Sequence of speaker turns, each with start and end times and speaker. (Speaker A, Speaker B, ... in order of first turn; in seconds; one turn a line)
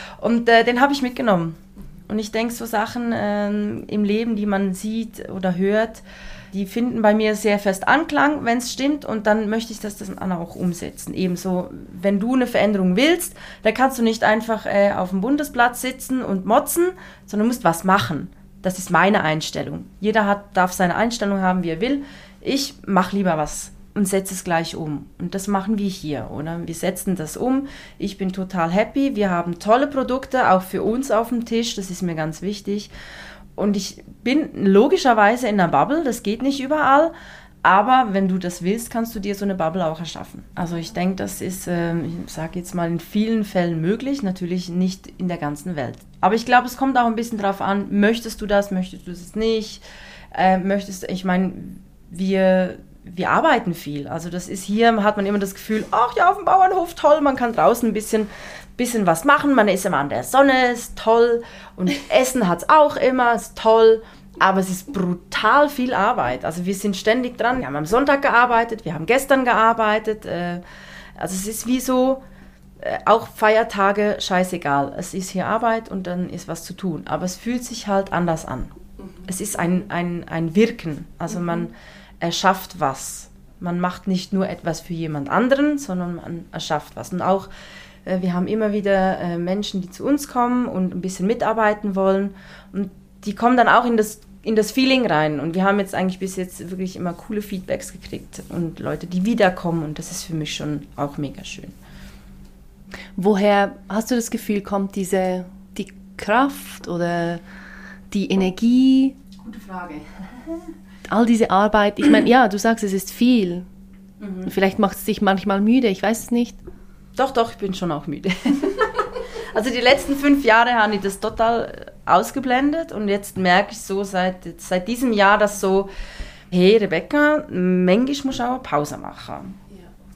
Speaker A: 0.2-32.9
Speaker A: 33.5-37.1
Speaker A: 37.6-70.6
Speaker A: 71.2-72.2
Speaker A: 72.8-87.5
Speaker A: 88.0-101.8
Speaker B: 103.2-107.4
Speaker B: 108.1-109.2
Speaker A: 109.4-110.0
Speaker B: 111.1-113.7
Speaker A: 114.2-114.5
Speaker B: 114.5-116.6
Speaker A: 117.2-125.9
Speaker A: 126.5-129.6